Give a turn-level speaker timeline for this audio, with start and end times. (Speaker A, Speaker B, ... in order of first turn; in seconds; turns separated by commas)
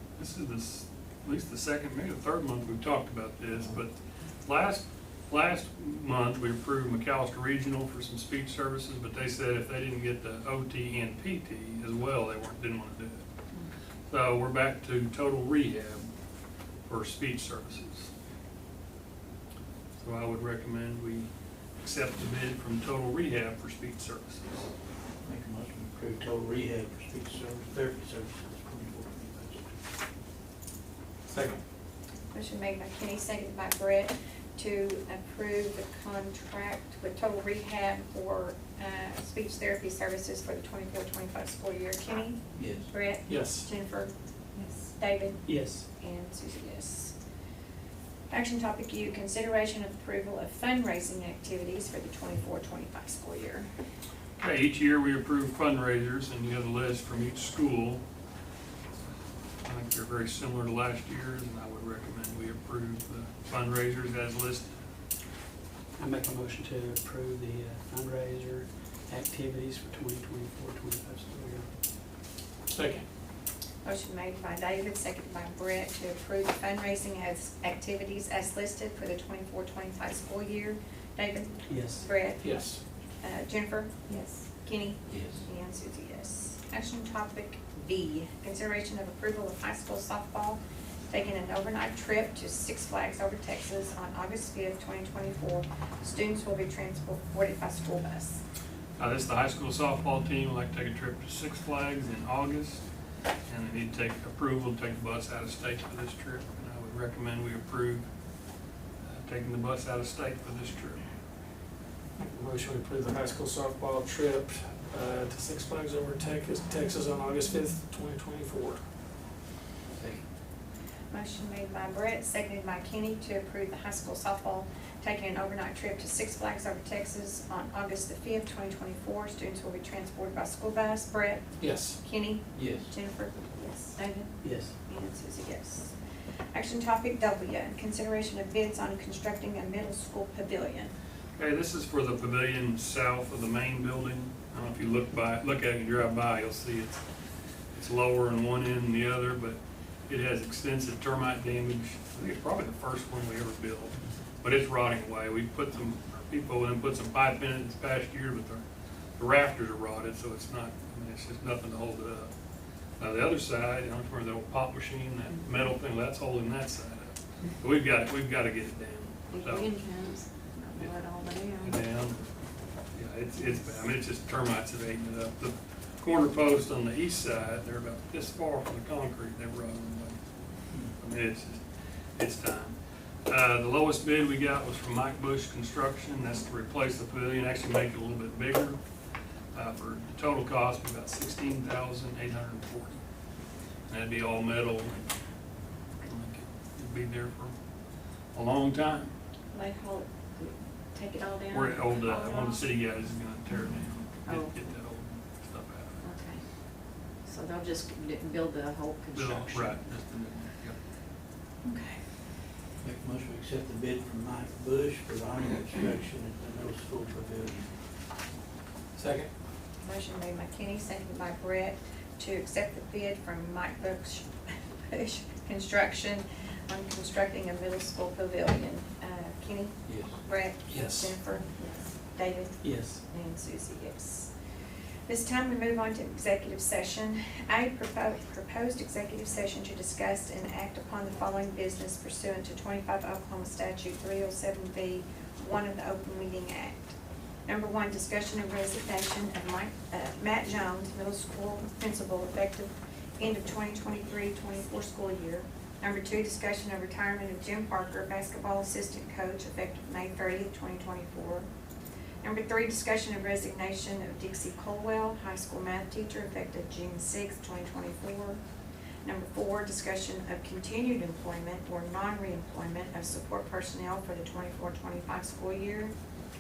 Speaker A: 0.2-13.2, Speaker A: 14.1-16.1, Speaker A: 16.9-18.1, Speaker A: 20.0-21.3, Speaker A: 21.8-24.7, Speaker B: 25.2-29.7, Speaker C: 31.3-31.6, Speaker D: 32.3-44.1, Speaker B: 42.5-42.9, Speaker C: 43.3-43.7, Speaker D: 44.9-47.1, Speaker E: 45.5-45.8, Speaker D: 48.3-53.7, Speaker A: 54.4-58.0, Speaker A: 59.6-64.7, Speaker E: 66.0-71.7, Speaker C: 72.7-73.1, Speaker D: 73.8-82.7, Speaker E: 81.7-82.1, Speaker C: 82.4-82.8, Speaker D: 83.2-98.4, Speaker F: 84.1-84.3, Speaker B: 85.1-85.4, Speaker A: 99.0-102.8, Speaker A: 103.5-108.1, Speaker A: 109.0-111.0, Speaker C: 112.2-118.8, Speaker B: 119.9-120.2, Speaker D: 121.1-135.9, Speaker C: 131.6-132.0, Speaker B: 132.6-132.9, Speaker E: 134.4-134.7, Speaker D: 136.5-140.9, Speaker A: 141.4-147.0, Speaker A: 147.7-158.6, Speaker A: 159.2-162.3, Speaker A: 163.0-169.8, Speaker F: 169.3-171.8, Speaker A: 171.5-172.2, Speaker A: 172.9-180.2, Speaker A: 180.8-181.6, Speaker A: 182.2-188.8, Speaker A: 189.5-193.0, Speaker A: 193.9-195.1, Speaker A: 196.0-197.5, Speaker A: 198.3-199.1, Speaker F: 199.5-202.6, Speaker A: 201.5-206.0, Speaker F: 204.3-204.6, Speaker F: 206.0-206.4, Speaker F: 207.2-209.8, Speaker A: 209.1-210.8, Speaker D: 211.7-211.9, Speaker B: 212.8-217.7, Speaker C: 219.0-219.3, Speaker D: 219.8-224.3, Speaker D: 224.9-234.3, Speaker B: 229.9-230.2, Speaker C: 230.8-231.1, Speaker E: 232.6-233.0, Speaker D: 235.1-246.9, Speaker D: 247.5-261.5, Speaker D: 262.2-268.4, Speaker D: 269.1-275.9